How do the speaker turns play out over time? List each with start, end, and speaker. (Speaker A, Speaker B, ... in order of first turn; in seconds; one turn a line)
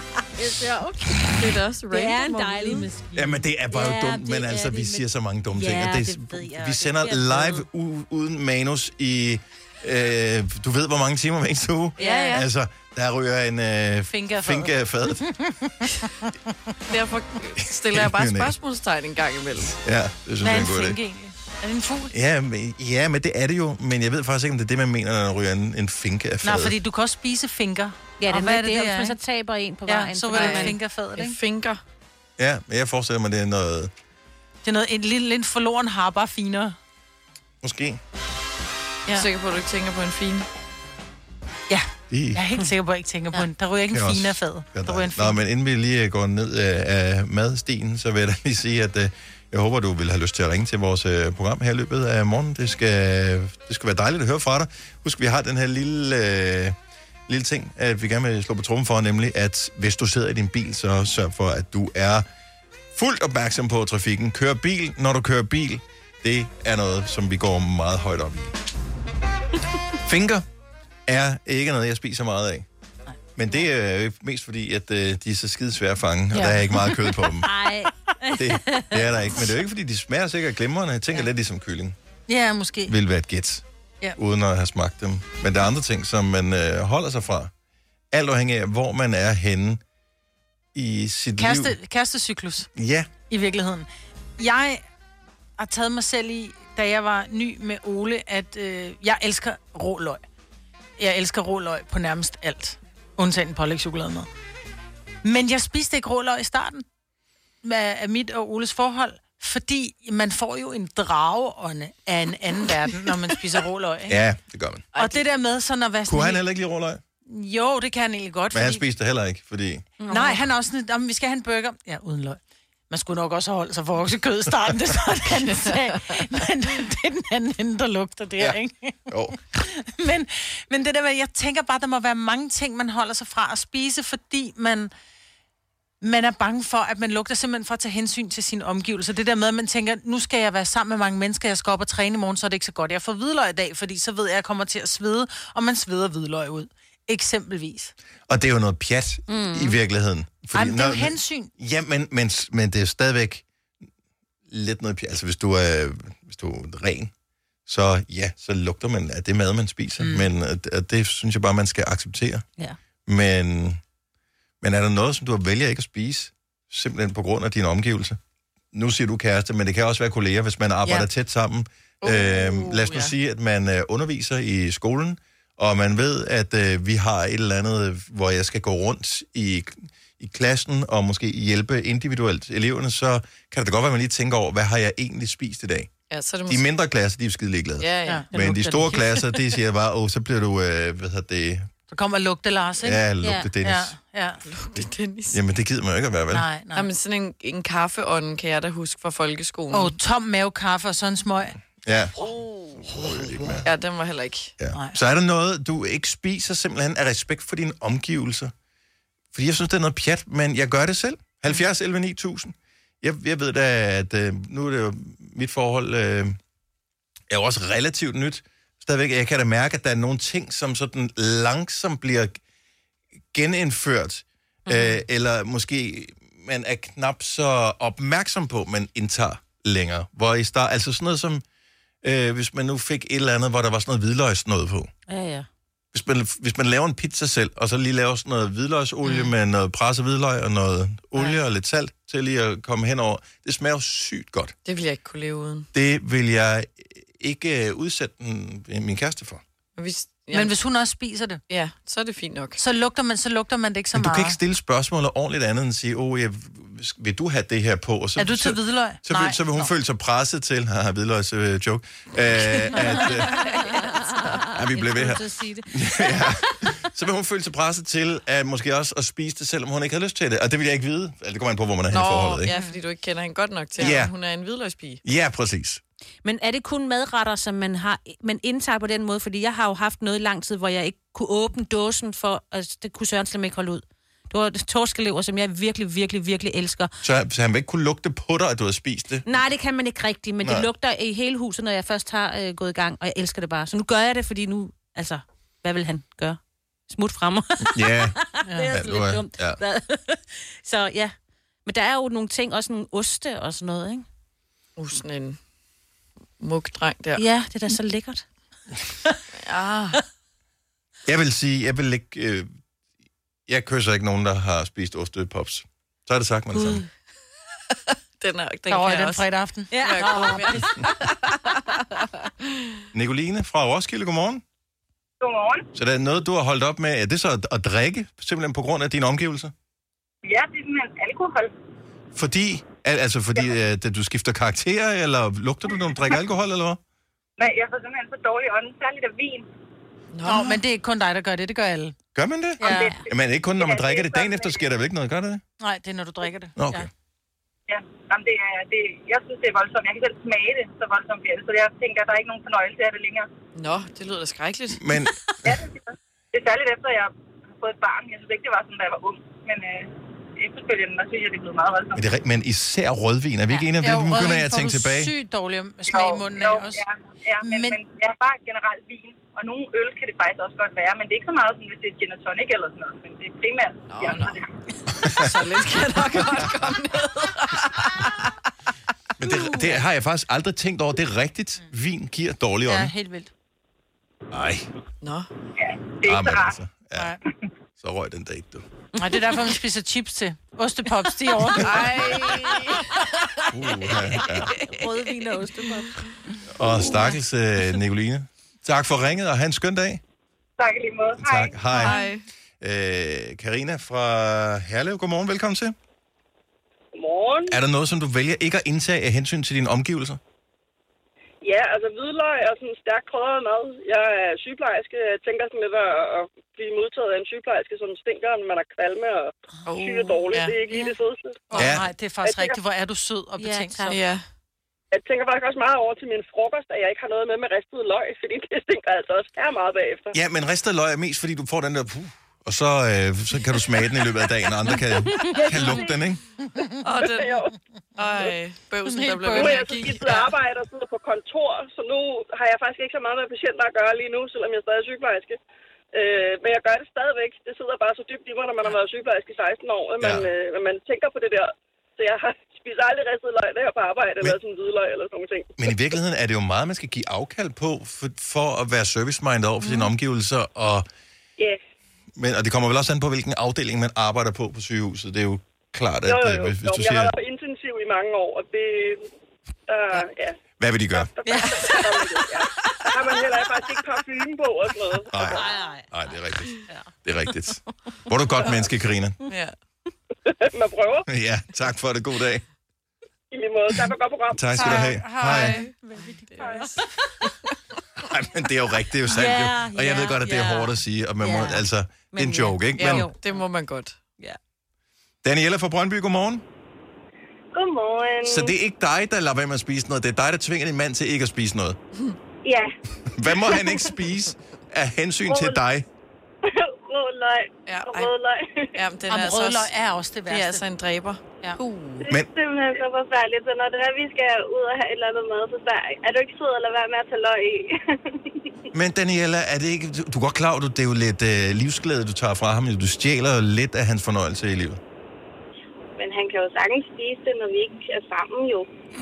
Speaker A: 0.4-1.4
Speaker B: 1.2-2.9
Speaker A: 1.9-7.6
Speaker C: 3.1-15.2
Speaker A: 12.0-12.4
Speaker B: 12.0-12.4
Speaker D: 14.1-16.3
Speaker B: 16.9-19.8
Speaker C: 17.9-18.5
Speaker C: 19.8-21.0
Speaker D: 20.4-22.1
Speaker C: 22.1-26.8
Speaker D: 26.4-29.2
Speaker A: 28.2-30.8
Speaker D: 29.9-31.4
Speaker B: 30.3-31.8
Speaker C: 32.4-33.9
Speaker D: 34.6-36.8
Speaker C: 37.6-38.0
Speaker B: 39.1-40.5
Speaker D: 41.7-45.4
Speaker C: 42.1-42.4
Speaker C: 43.9-56.8
Speaker C: 57.3-62.3
Speaker C: 62.9-68.5
Speaker C: 70.0-70.5
Speaker C: 71.1-72.7
Speaker C: 73.4-77.5
Speaker A: 77.4-79.0
Speaker C: 78.3-82.0
Speaker D: 82.3-83.0
Speaker C: 82.9-83.7
Speaker C: 84.2-87.5
Speaker C: 88.1-89.8
Speaker C: 90.7-91.8
Speaker D: 91.4-92.7
Speaker C: 92.8-93.1
Speaker D: 93.3-94.8
Speaker D: 95.6-100.2
Speaker D: 101.0-104.3
Speaker D: 105.2-106.8
Speaker D: 107.6-114.2
Speaker C: 114.1-114.9
Speaker B: 114.9-115.2
Speaker D: 115.0-116.4
Speaker C: 116.1-117.0
Speaker D: 117.3-118.8
Speaker C: 118.5-119.9
Speaker A: 120.0-120.4
Speaker D: 120.1-134.9
Speaker C: 129.1-129.4
Speaker D: 136.0-147.9
Speaker C: 148.3-153.4
Speaker A: 149.3-149.8
Speaker D: 150.5-151.5
Speaker C: 154.5-157.1
Speaker C: 157.7-162.4
Speaker D: 160.0-160.3
Speaker C: 163.1-163.8
Speaker C: 164.6-168.2
Speaker C: 168.7-185.9
Speaker B: 172.0-173.1
Speaker B: 186.1-186.7
Speaker C: 186.5-191.7
Speaker B: 187.8-188.2
Speaker A: 188.3-189.3
Speaker D: 191.9-193.0
Speaker C: 192.8-193.9
Speaker A: 193.2-193.5
Speaker D: 193.6-194.4
Speaker B: 194.5-195.4
Speaker C: 195.3-196.5
Speaker D: 196.3-196.9
Speaker B: 196.7-199.9
Speaker D: 199.7-201.6
Speaker C: 201.8-202.1
Speaker B: 202.2-202.8
Speaker C: 202.8-203.7
Speaker B: 203.6-204.5
Speaker C: 204.6-208.5
Speaker C: 209.3-216.4
Speaker C: 217.3-222.4
Speaker C: 223.3-231.4
Speaker A: 224.7-225.0
Speaker C: 232.0-234.9
Speaker A: 235.1-235.5
Speaker C: 235.9-244.5
Speaker B: 244.7-245.7
Speaker C: 245.7-249.4
Speaker B: 249.8-250.5
Speaker D: 250.3-251.4
Speaker B: 251.5-252.6
Speaker D: 252.6-254.4
Speaker C: 253.9-263.5
Speaker D: 258.2-259.7
Speaker B: 262.4-262.8
Speaker B: 263.3-263.7
Speaker A: 263.6-266.4
Speaker C: 264.5-272.5
Speaker B: 271.9-275.0
Speaker C: 273.8-274.1
Speaker C: 275.0-275.8
Speaker A: 276.2-286.9
Speaker C: 287.0-289.3
Speaker A: 289.3-301.1
Speaker C: 290.4-290.7
Speaker C: 297.7-298.2
Speaker C: 298.7-299.6
Speaker A: 301.6-304.1
Speaker B: 304.8-305.4
Speaker B: 306.4-307.2
Speaker A: 307.2-308.2
Speaker B: 309.4-310.0
Speaker C: 311.1-312.5
Speaker C: 313.5-316.8
Speaker A: 316.6-316.9
Speaker B: 318.2-319.3
Speaker D: 318.7-320.8
Speaker A: 319.7-320.8
Speaker B: 319.8-321.6
Speaker C: 322.9-324.4
Speaker E: 325.2-325.7
Speaker C: 325.8-329.5
Speaker E: 330.2-331.5
Speaker C: 332.1-336.8
Speaker E: 337.4-339.5
Speaker B: 340.1-340.6
Speaker D: 340.2-341.9
Speaker C: 342.1-345.4
Speaker D: 342.6-343.0
Speaker E: 342.6-344.6
Speaker D: 345.6-346.9
Speaker C: 346.6-346.9
Speaker E: 347.7-353.3
Speaker B: 353.6-354.9
Speaker C: 354.7-355.5
Speaker E: 355.4-362.1
Speaker C: 361.9-365.1
Speaker D: 363.8-366.9
Speaker E: 365.9-374.5
Speaker D: 367.4-367.8
Speaker B: 373.9-374.4
Speaker B: 375.0-378.3
Speaker C: 375.0-375.3
Speaker C: 379.2-382.9
Speaker D: 382.7-383.3
Speaker C: 384.3-384.7
Speaker B: 385.0-385.3
Speaker E: 385.6-386.6
Speaker C: 386.1-387.2
Speaker C: 387.8-388.6
Speaker D: 389.0-392.5
Speaker B: 391.6-393.0
Speaker C: 393.5-394.6
Speaker A: 394.2-396.1
Speaker C: 396.6-400.0
Speaker E: 400.6-401.6
Speaker C: 401.2-402.0
Speaker B: 401.8-402.2
Speaker C: 402.6-405.8
Speaker F: 406.9-407.6
Speaker C: 407.5-410.2
Speaker F: 411.4-422.6
Speaker B: 419.7-420.2
Speaker D: 420.3-420.9
Speaker D: 421.5-424.0
Speaker C: 421.6-421.9
Speaker A: 423.4-424.0
Speaker B: 423.9-424.2
Speaker F: 424.9-430.1
Speaker C: 430.1-436.2
Speaker F: 435.6-435.9
Speaker B: 436.8-437.4
Speaker F: 437.0-437.6
Speaker B: 438.0-440.2
Speaker D: 438.9-440.2
Speaker F: 439.4-445.4
Speaker F: 445.9-455.8
Speaker C: 450.0-450.3
Speaker C: 455.6-460.9
Speaker C: 462.2-467.1
Speaker F: 466.1-469.1
Speaker F: 469.7-470.4
Speaker C: 470.6-471.1
Speaker F: 470.9-475.5
Speaker A: 471.2-471.6
Speaker B: 471.5-471.8
Speaker C: 475.1-479.2
Speaker A: 475.2-475.9
Speaker B: 479.3-479.5
Speaker F: 480.3-481.1
Speaker C: 481.1-482.4
Speaker F: 483.3-484.8
Speaker C: 484.3-485.6
Speaker D: 484.6-486.8
Speaker B: 485.2-485.7
Speaker B: 486.3-486.6
Speaker A: 486.4-486.7
Speaker C: 488.0-493.1
Speaker A: 489.1-493.2
Speaker B: 492.8-494.0
Speaker C: 495.2-496.4
Speaker G: 497.5-498.5
Speaker C: 498.2-501.8
Speaker G: 502.4-502.7
Speaker C: 503.1-505.9
Speaker G: 503.3-503.9
Speaker G: 505.3-505.6
Speaker G: 506.4-508.8
Speaker B: 507.7-508.1
Speaker B: 508.8-509.7
Speaker D: 509.1-510.7
Speaker B: 510.3-512.1
Speaker G: 512.0-518.4
Speaker C: 518.7-524.8
Speaker G: 526.0-528.7